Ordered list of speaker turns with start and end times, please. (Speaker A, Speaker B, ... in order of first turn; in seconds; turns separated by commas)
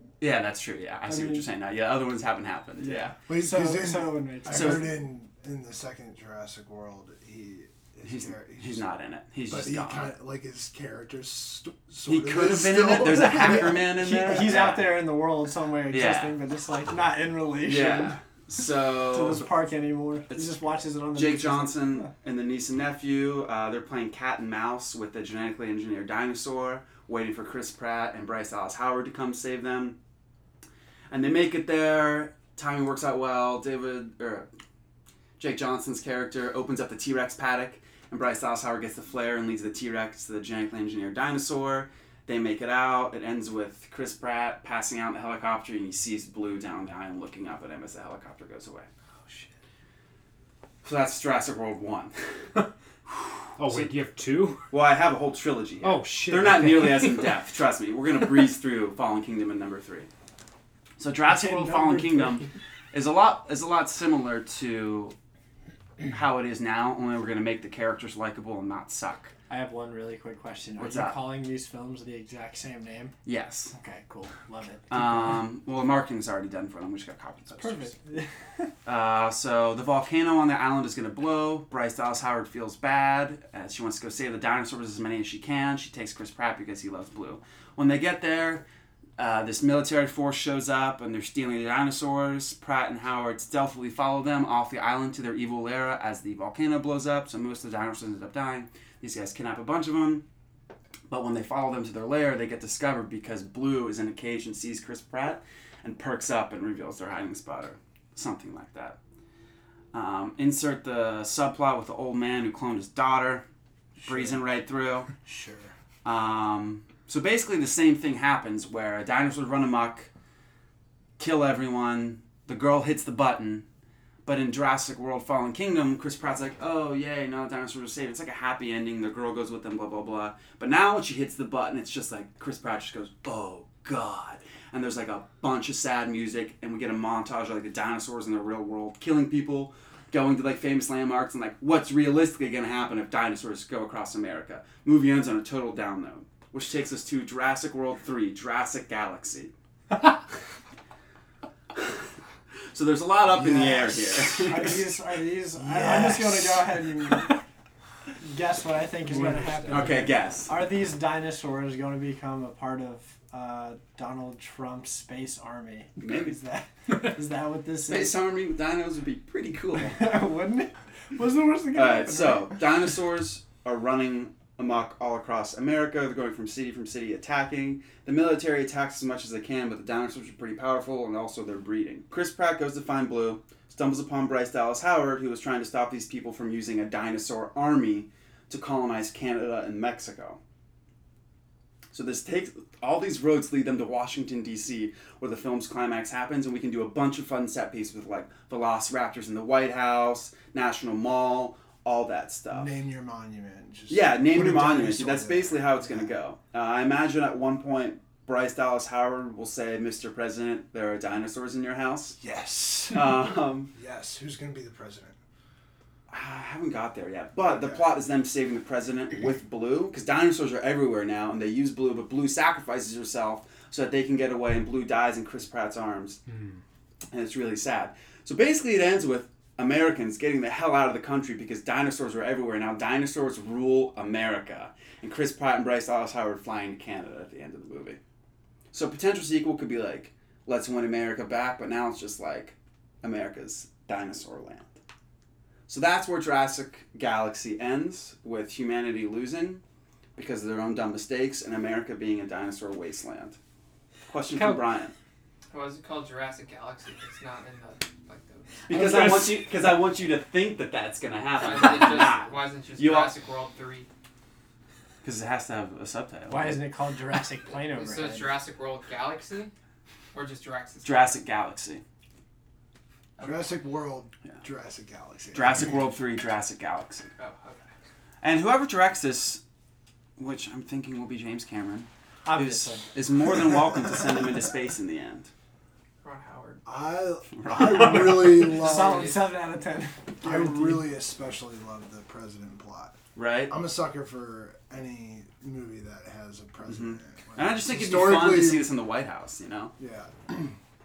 Speaker A: 0.2-3.1, Speaker B: 1.1-1.5, Speaker B: 2.8-4.9, Speaker C: 3.3-8.9, Speaker A: 4.5-4.9, Speaker A: 8.1-10.1, Speaker C: 9.5-13.9, Speaker A: 12.1-15.0, Speaker B: 13.5-18.2, Speaker A: 15.9-16.4, Speaker A: 17.6-19.5, Speaker B: 19.1-22.1, Speaker A: 21.1-30.0, Speaker A: 31.1-34.5, Speaker A: 35.4-48.9, Speaker A: 50.8-52.5, Speaker D: 53.6-54.6, Speaker A: 53.6-53.9, Speaker A: 54.7-60.1, Speaker D: 55.8-57.2, Speaker A: 61.0-65.2, Speaker B: 61.3-62.5, Speaker A: 66.1-69.3, Speaker B: 69.5-73.2, Speaker A: 70.8-71.2, Speaker A: 73.2-73.8, Speaker B: 73.7-75.4, Speaker A: 74.9-77.9, Speaker B: 77.5-78.7, Speaker A: 78.8-88.7, Speaker A: 89.2-100.2, Speaker A: 101.1-109.0, Speaker A: 109.9-113.4, Speaker C: 114.0-114.4, Speaker A: 114.0-115.1, Speaker C: 115.2-115.7, Speaker A: 116.0-120.1, Speaker A: 121.2-123.7, Speaker A: 124.2-149.5, Speaker A: 152.7-154.9, Speaker C: 153.4-153.9, Speaker B: 154.4-157.4, Speaker C: 155.7-156.6, Speaker B: 158.2-168.2, Speaker D: 159.1-159.9, Speaker A: 159.7-160.5, Speaker A: 166.0-166.4, Speaker A: 167.9-170.1, Speaker B: 169.8-172.6, Speaker A: 171.7-190.4, Speaker A: 191.9-202.7, Speaker C: 202.5-206.2, Speaker A: 203.9-212.2, Speaker C: 212.2-215.2, Speaker A: 212.9-213.7, Speaker A: 216.1-226.2, Speaker C: 217.5-217.9, Speaker D: 226.3-226.6, Speaker A: 227.1-238.0, Speaker A: 238.7-244.8, Speaker A: 245.7-249.6, Speaker A: 250.2-253.4, Speaker A: 254.1-254.9, Speaker B: 254.3-254.6, Speaker E: 255.5-259.0, Speaker A: 258.7-263.1, Speaker E: 261.4-263.9, Speaker A: 265.0-266.7, Speaker B: 266.3-268.4, Speaker E: 267.6-269.5, Speaker E: 270.1-271.2, Speaker A: 270.8-271.8, Speaker C: 273.2-275.8, Speaker E: 273.2-273.4, Speaker A: 275.3-277.1, Speaker E: 277.2-277.7, Speaker A: 278.2-279.4, Speaker A: 280.2-285.3, Speaker B: 282.2-282.9, Speaker E: 286.0-286.6, Speaker C: 286.6-289.1, Speaker A: 287.3-288.5, Speaker B: 288.1-290.9, Speaker E: 288.4-289.3, Speaker C: 290.2-293.0, Speaker A: 293.1-293.5, Speaker C: 293.5-298.7, Speaker A: 296.7-299.7, Speaker C: 299.8-300.6